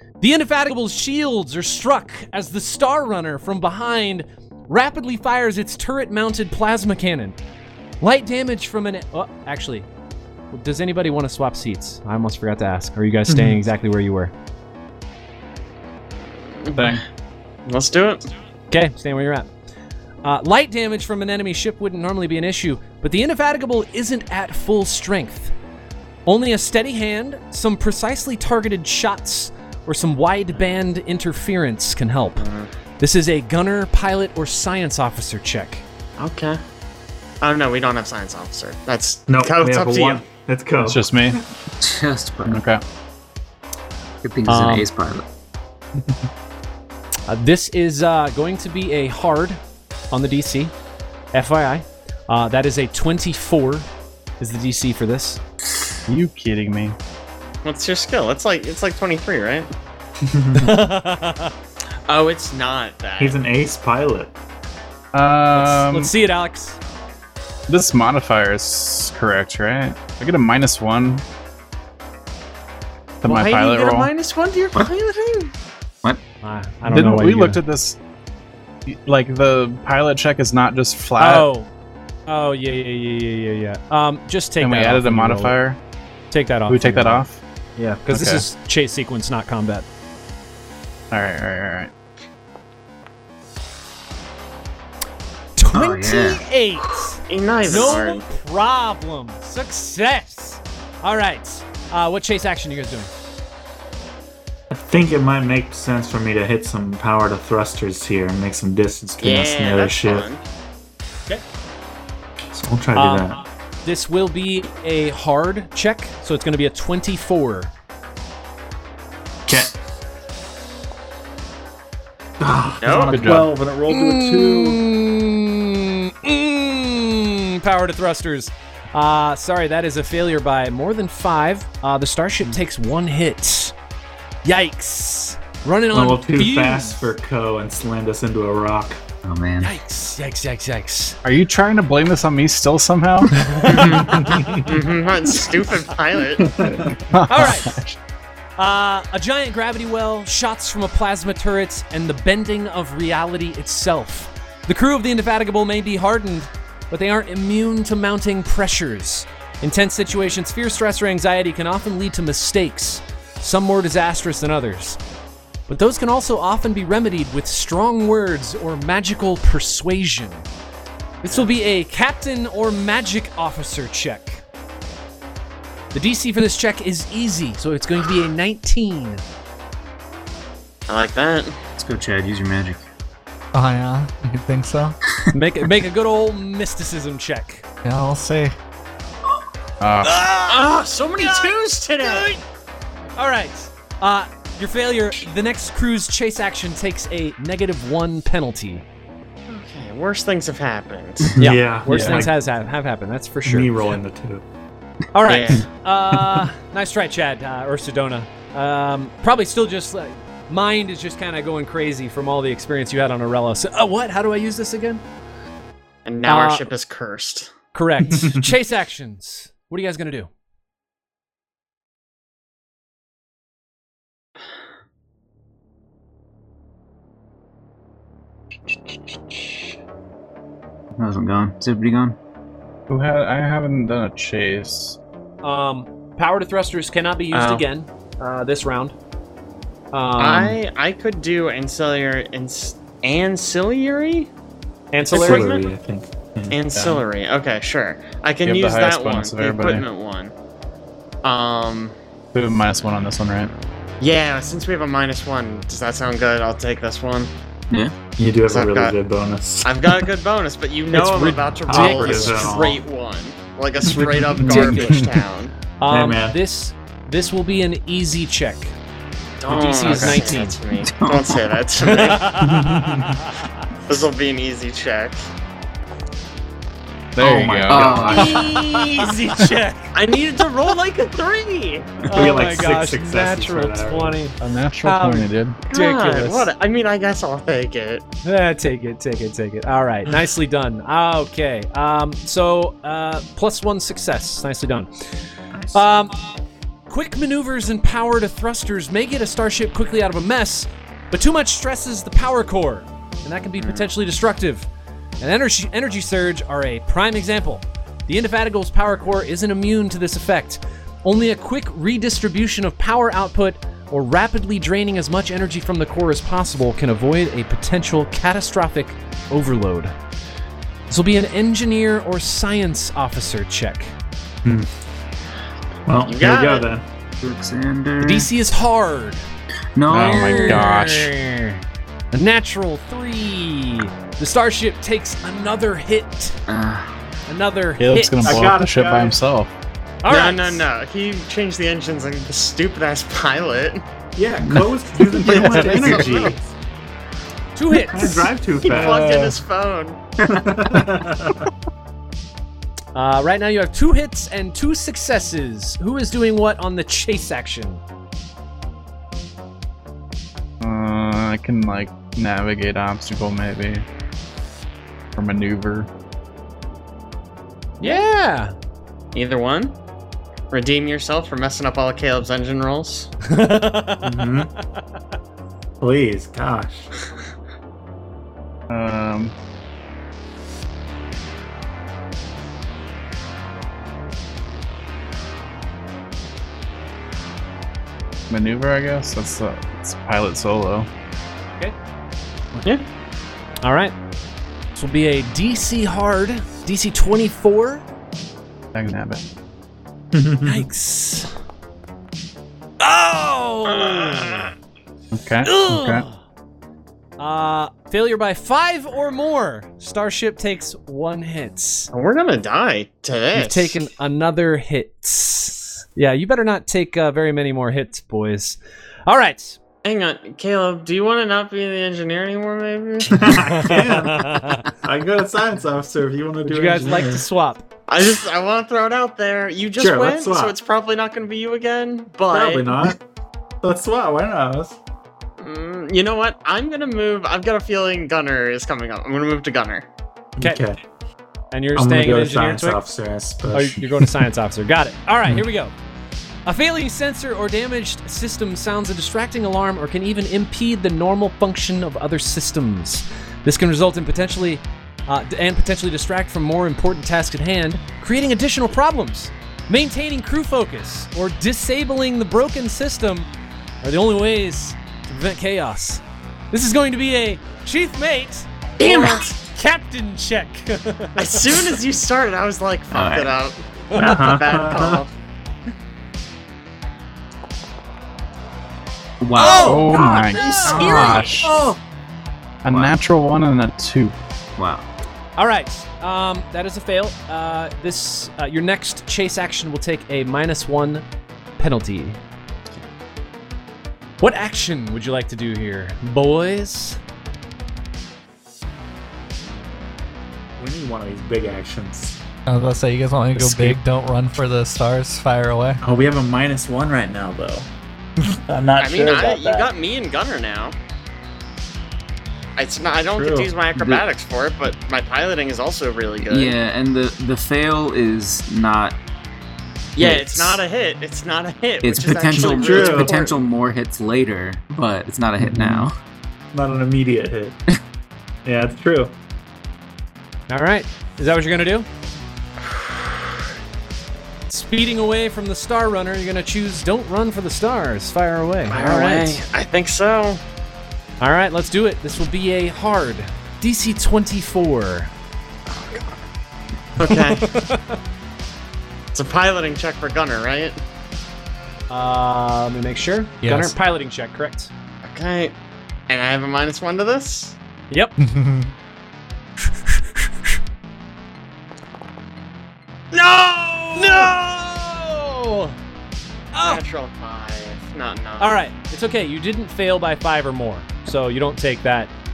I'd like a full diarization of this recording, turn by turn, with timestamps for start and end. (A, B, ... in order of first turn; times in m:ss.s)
0:00.2-0:07.4 A
0:08.0-0:09.9 A
0:10.5-0:14.3 A
0:13.3-0:13.6 B
0:16.6-0:17.0 C
0:16.8-0:17.0 D
0:17.6-0:18.3 C
0:18.7-0:19.5 A
0:20.2-0:25.5 A
0:26.3-0:32.4 A
0:32.4-0:32.7 C
0:33.0-0:35.8 A
0:36.2-0:36.6 C
0:37.4-0:40.2 C
0:39.3-0:41.4 B
0:40.8-0:41.4 D
0:41.8-0:42.6 E
0:42.4-0:42.8 D
0:44.2-0:45.3 E
0:44.5-0:44.9 A
0:47.3-0:49.6 A
0:50.1-0:50.7 A
0:51.3-0:53.9 A
0:54.4-0:55.4 A
0:56.1-0:57.0 D
0:57.6-0:59.7 C
1:00.2-1:00.8 B
1:00.5-1:01.5 A
1:02.1-1:03.4 C
1:03.2-1:04.3 B
1:05.1-1:06.1 D
1:05.5-1:06.8 A
1:07.7-1:11.2 D
1:13.2-1:14.1 D
1:13.2-1:15.5 C
1:16.4-1:17.6 A
1:16.9-1:18.0 D
1:18.8-1:21.5 D
1:21.2-1:21.7 A
1:22.3-1:25.6 A
1:24.6-1:25.8 D
1:26.3-1:27.2 A
1:26.7-1:27.4 D
1:27.8-1:29.8 A
1:28.1-1:28.4 D
1:31.1-1:31.9 D
1:35.6-1:43.1 A
1:35.7-1:36.4 E
1:37.3-1:38.2 C
1:44.7-1:50.3 B
1:49.2-1:50.4 C
1:52.5-1:53.4 B
1:52.9-1:57.7 A
1:59.5-1:59.7 B
2:02.4-2:04.8 B
2:02.8-2:03.3 C
2:03.1-2:03.5 D
2:03.9-2:13.7 A
2:14.4-2:17.1 A
2:15.9-2:19.0 B
2:19.2-2:19.8 E
2:19.6-2:21.2 A
2:21.2-2:23.6 D
2:23.4-2:24.7 A
2:23.6-2:26.5 C
2:23.8-2:24.7 B
2:26.4-2:27.0 B
2:27.1-2:28.0 D
2:27.3-2:27.8 A
2:28.6-2:45.0 A
2:45.7-2:50.5 A
2:51.2-2:54.4 A
2:55.9-2:59.2 A
3:00.9-3:01.6 C
3:01.8-3:02.8 E
3:03.5-3:05.0 F
3:05.3-3:07.6 A
3:07.8-3:08.5 F
3:09.8-3:10.2 D
3:10.0-3:12.4 A
3:10.5-3:12.3 C
3:13.2-3:18.8 A
3:19.5-3:21.3 C
3:21.3-3:22.3 B
3:21.4-3:23.7 A
3:21.9-3:22.2 D
3:23.4-3:24.4 B
3:25.1-3:35.0 A
3:25.2-3:25.6 C
3:26.1-3:26.5 B
3:36.0-3:37.5 C
3:36.3-3:36.6 A
3:37.7-3:40.3 A
3:38.1-3:38.5 B
3:50.9-3:52.2 E
3:52.9-3:55.0 D
3:55.4-3:58.9 A
3:57.3-3:57.6 C
3:59.9-4:00.6 A
4:00.2-4:04.3 C
4:04.9-4:05.5 A
4:05.1-4:05.7 C
4:05.1-4:06.6 B
4:06.5-4:10.3 C
4:06.7-4:07.0 D
4:08.4-4:09.8 D
4:11.2-4:12.0 C
4:12.3-4:13.5 D
4:14.0-4:17.3 C
4:18.2-4:19.9 B
4:18.5-4:19.0 C
4:19.6-4:25.5 C
4:20.9-4:22.7 A
4:21.7-4:22.8 B
4:23.9-4:24.2 B
4:24.4-4:25.1 D
4:24.4-4:25.1 A
4:25.8-4:28.7 A
4:25.9-4:26.4 B
4:29.4-4:32.3 C
4:29.5-4:30.6 A
4:29.8-4:30.2 D
4:30.8-4:31.7 E
4:31.8-4:33.4 A
4:32.4-4:33.2 B
4:33.9-4:35.3 C
4:37.2-4:38.4 D
4:37.2-4:38.4 B
4:37.7-4:38.4 E
4:38.0-4:39.9 A
4:39.9-4:42.1 C
4:42.1-4:44.2 B
4:42.1-4:46.5 A
4:44.4-4:45.6 D
4:45.7-4:48.0 C
4:48.2-4:55.0 A
4:55.7-4:56.4 A
4:56.9-5:04.7 A
5:03.6-5:03.9 C
5:05.2-5:19.9 A
5:20.9-5:23.9 A
5:25.9-5:26.8 B
5:26.0-5:26.7 C
5:27.2-5:28.3 E
5:28.0-5:29.2 A
5:29.7-5:30.8 E
5:29.9-5:31.1 D
5:29.9-5:31.6 A
5:32.1-5:36.4 A
5:36.5-5:36.9 E
5:37.3-5:38.4 A
5:37.8-5:39.5 D
5:38.2-5:39.2 B
5:40.0-5:40.6 A
5:40.1-5:43.8 C
5:44.2-5:46.5 B
5:45.2-5:46.2 D
5:45.3-5:46.3 C
5:47.6-5:48.3 A
5:47.7-5:49.4 B
5:48.6-5:50.0 C
5:50.2-5:51.5 B
5:52.9-5:57.8 A
6:00.6-6:03.8 D
6:05.2-6:05.9 D
6:07.8-6:08.5 A
6:09.1-6:09.7 C
6:10.5-6:13.1 C
6:13.3-6:14.5 A
6:14.0-6:14.5 B
6:15.8-6:16.9 B
6:18.7-6:19.3 D
6:28.3-6:30.9 D
6:33.6-6:33.9 A
6:34.7-6:37.8 A
6:38.7-6:39.2 D
6:40.1-6:40.6 B
6:40.4-6:41.3 A
6:42.8-6:44.5 A
6:43.7-6:44.4 C
6:45.1-6:46.0 D
6:45.4-6:46.2 A
6:47.2-6:51.9 A
6:51.9-6:53.8 C
6:53.3-6:59.6 A
6:59.8-7:03.6 C
7:03.1-7:07.2 B
7:03.5-7:04.6 A
7:06.4-7:07.6 A
7:07.9-7:12.8 C
7:09.8-7:10.6 B
7:12.3-7:13.0 B
7:13.6-7:14.8 B
7:15.4-7:19.9 C
7:20.4-7:20.8 B
7:21.5-7:22.8 A
7:21.7-7:24.0 B
7:23.5-7:25.7 A
7:26.4-7:43.3 A
7:43.8-7:46.0 A
7:46.5-7:51.6 A
7:48.8-7:49.2 C
7:51.2-7:55.1 C
7:52.9-7:53.4 E
7:53.9-7:55.0 B
7:59.2-8:01.4 E
7:59.4-8:01.7 A
7:59.6-8:01.5 D
8:00.6-8:01.8 B
8:02.6-8:04.2 D
8:02.7-8:03.0 E
8:04.6-8:04.9 E
8:05.4-8:11.0 A
8:11.6-8:12.2 A
8:14.2-8:17.0 A
8:20.6-8:22.2 B
8:22.5-8:25.8 F
8:23.4-8:23.8 D
8:25.8-8:27.7 B
8:28.5-8:29.7 B
8:28.8-8:30.8 C
8:32.6-8:36.6 C
8:33.1-8:33.5 B
8:33.7-8:34.0 E
8:36.3-8:39.0 E
8:40.0-8:40.6 E
8:40.0-8:43.4 C
8:41.8-8:45.9 E
8:42.3-8:43.2 B
8:45.4-8:45.9 B
8:46.5-8:47.6 B
8:48.4-8:49.1 B
8:50.5-8:51.9 A
8:52.7-8:53.0 C
8:54.5-8:59.4 A
8:58.7-9:00.4 C
9:01.2-9:05.1 A
9:05.7-9:06.2 C
9:07.0-9:07.6 C
9:07.0-9:08.0 A
9:09.1-9:10.8 C
9:11.9-9:14.7 A
9:13.4-9:13.8 F
9:15.0-9:15.6 C
9:16.1-9:17.6 C
9:17.9-9:18.2 A
9:18.2-9:18.7 F
9:23.1-9:24.3 C
9:23.9-9:25.8 A
9:26.5-9:26.8 A
9:26.6-9:28.6 C
9:28.4-9:32.1 A